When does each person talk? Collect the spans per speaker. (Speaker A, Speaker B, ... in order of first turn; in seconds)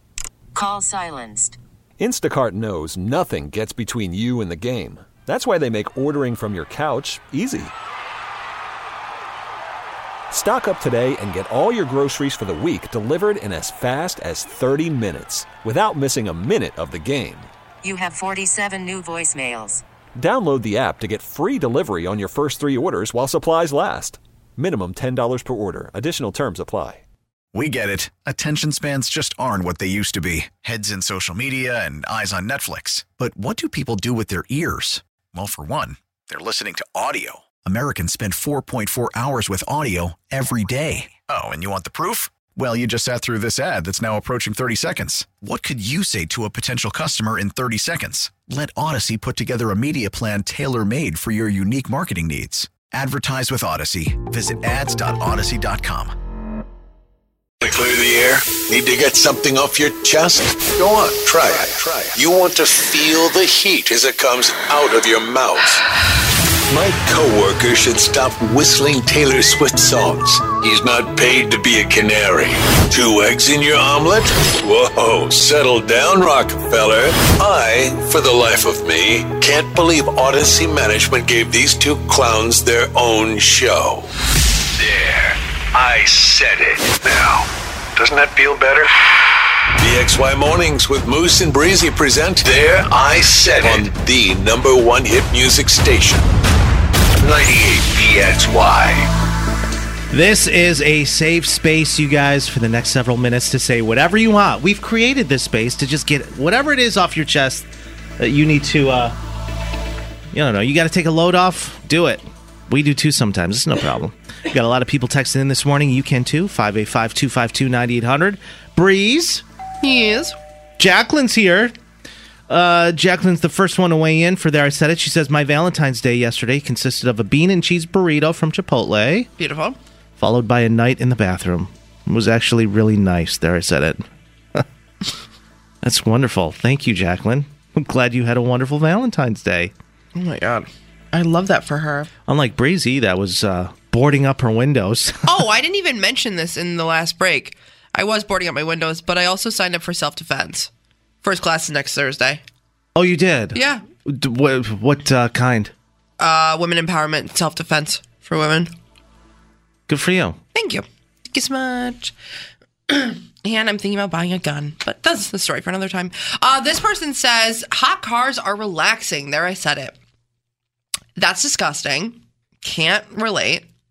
Speaker A: 0.5-1.6, 17.8-19.8
Speaker B: 2.0-7.7, 10.3-17.5, 20.2-27.0
Speaker C: 27.5-56.1
Speaker D: 57.6-65.8, 66.7-84.1, 84.8-87.5, 88.0-88.9, 89.8-96.3, 97.2-99.1
Speaker E: 100.1-107.7, 108.2-109.2, 110.3-119.4, 120.8-121.7, 122.5-129.3, 130.2-134.0, 135.8-139.7, 142.3-145.3, 152.9-155.7, 159.9-160.4
Speaker F: 119.8-120.4, 129.4-129.8, 140.2-142.1, 145.3-150.7, 151.2-152.4, 153.6-153.9, 156.2-158.7, 160.6-162.1, 162.9-170.0, 171.2-173.7